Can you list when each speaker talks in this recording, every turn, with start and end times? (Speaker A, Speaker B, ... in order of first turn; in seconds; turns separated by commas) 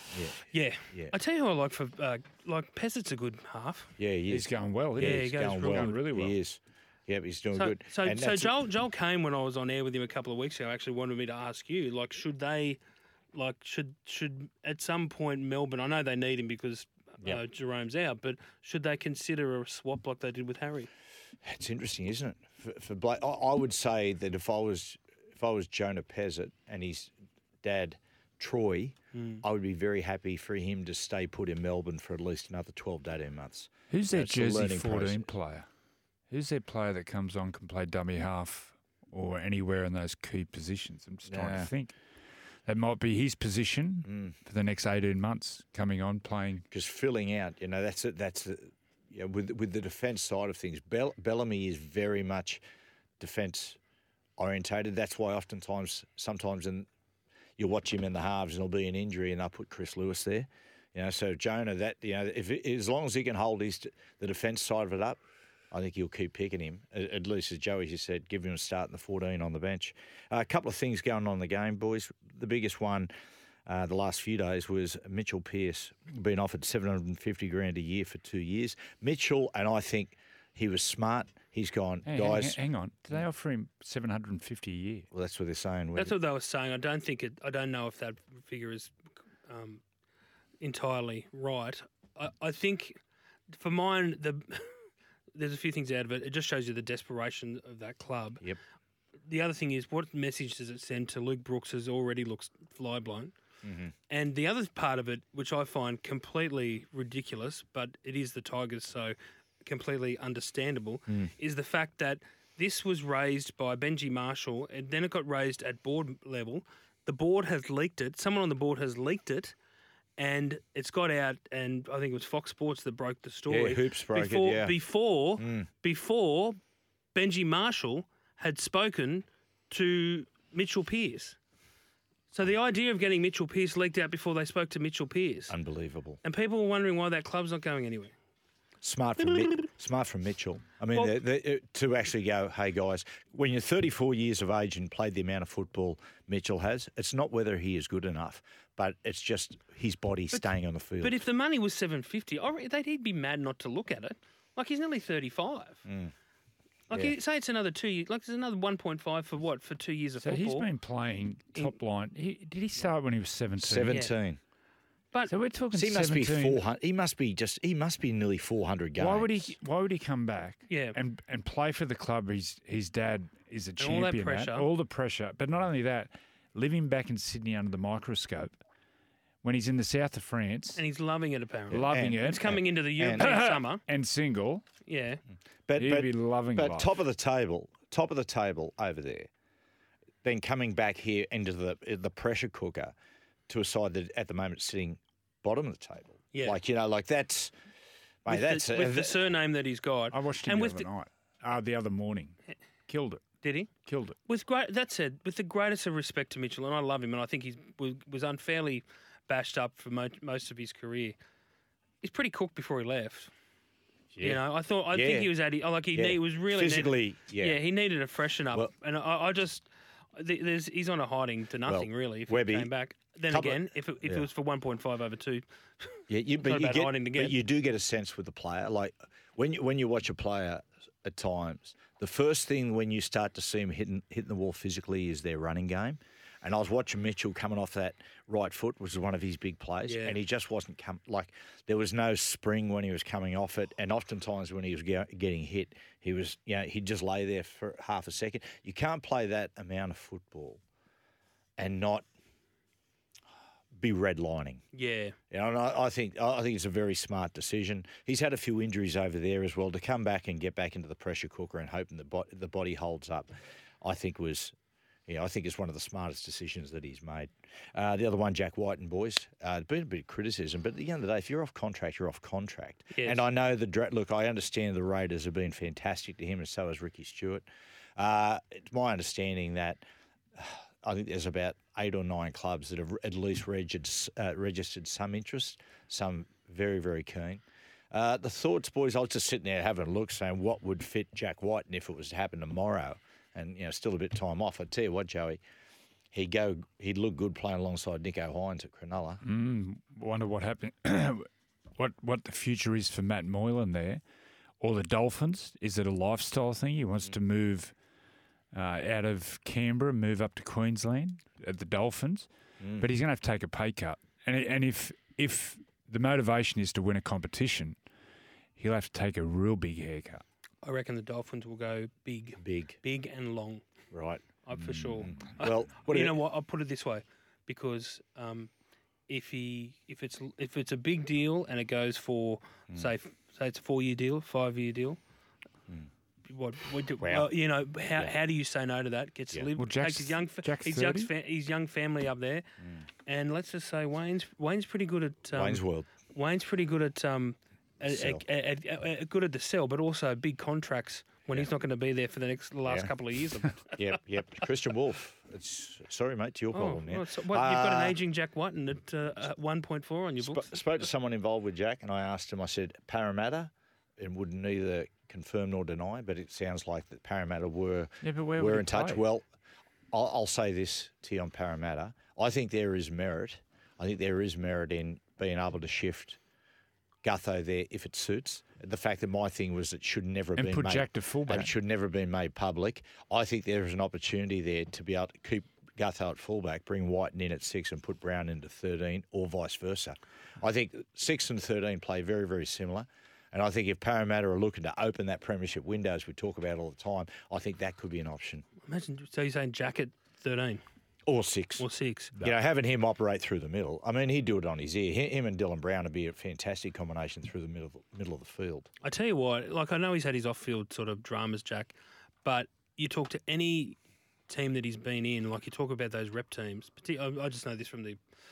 Speaker A: 0.1-0.4, Speaker B: 0.5-3.9, Speaker A: 4.0-8.6, Speaker C: 4.3-6.3, Speaker B: 5.0-6.0, Speaker B: 7.5-12.8, Speaker B: 13.3-20.9, Speaker A: 21.4-27.1, Speaker A: 27.6-35.3, Speaker B: 29.1-29.4, Speaker C: 33.9-35.6, Speaker C: 36.3-41.9, Speaker A: 41.3-41.7, Speaker C: 42.6-46.6, Speaker A: 44.0-44.3, Speaker A: 46.7-52.6, Speaker A: 53.2-53.8, Speaker A: 54.4-56.9, Speaker A: 57.6-65.2, Speaker A: 65.7-73.1, Speaker A: 73.7-82.6, Speaker C: 82.0-85.1, Speaker A: 85.1-86.1, Speaker B: 86.0-89.8, Speaker B: 90.6-93.0, Speaker B: 93.5-94.7, Speaker B: 95.3-98.4, Speaker B: 99.3-103.3, Speaker A: 103.6-103.9, Speaker B: 104.1-119.5, Speaker B: 120.2-126.6, Speaker A: 123.5-124.8, Speaker A: 125.4-125.7, Speaker B: 127.1-131.4, Speaker B: 132.3-135.5, Speaker A: 135.5-136.2, Speaker B: 136.2-138.1, Speaker A: 138.8-151.2, Speaker B: 139.2-139.7, Speaker B: 151.0-155.8, Speaker A: 155.8-156.1, Speaker B: 156.9-160.7, Speaker C: 160.2-163.9, Speaker A: 163.6-164.4, Speaker C: 165.3-166.6, Speaker A: 165.7-169.5, Speaker C: 169.0-178.6, Speaker B: 170.7-170.9, Speaker B: 173.8-174.7, Speaker C: 179.4-180.8, Speaker B: 180.8-183.8, Speaker C: 181.7-182.6, Speaker A: 181.7-183.3, Speaker C: 183.2-184.6, Speaker B: 184.8-185.2, Speaker A: 185.7-189.3, Speaker C: 185.8-186.9, Speaker A: 190.2-192.9, Speaker A: 193.5-197.5, Speaker A: 198.2-199.2, Speaker B: 198.3-200.9, Speaker C: 200.1-203.2, Speaker B: 203.4-203.7, Speaker C: 203.8-204.2, Speaker B: 204.3-211.2, Speaker B: 212.0-213.3, Speaker A: 214.1-215.3, Speaker B: 214.2-227.4, Speaker A: 215.9-217.6, Speaker A: 221.7-222.7, Speaker A: 223.3-224.3, Speaker A: 226.1-250.6, Speaker B: 239.8-240.2, Speaker A: 251.6-252.1, Speaker A: 253.7-254.6, Speaker B: 254.7-255.2, Speaker A: 255.3-264.5, Speaker A: 265.1-277.4, Speaker B: 272.9-273.2, Speaker A: 277.9-279.8, Speaker A: 280.4-295.4, Speaker A: 296.1-299.2, Speaker C: 299.2-304.0, Speaker C: 304.6-307.7, Speaker C: 308.5-317.8, Speaker A: 312.6-312.9, Speaker C: 318.6-320.2, Speaker B: 320.6-323.6, Speaker A: 322.4-322.8, Speaker A: 323.9-326.2, Speaker B: 324.4-328.5, Speaker B: 329.1-335.0, Speaker B: 336.3-342.5, Speaker A: 337.0-337.3, Speaker C: 339.6-341.1, Speaker B: 343.1-353.8, Speaker A: 345.3-345.9, Speaker A: 347.8-348.2, Speaker A: 353.7-358.0, Speaker B: 356.5-360.4, Speaker A: 360.2-369.2, Speaker C: 368.0-369.0, Speaker A: 369.9-376.2, Speaker A: 377.0-398.4, Speaker C: 380.4-381.5, Speaker B: 398.6-400.6, Speaker A: 401.1-408.7, Speaker B: 401.6-402.1, Speaker B: 408.8-418.0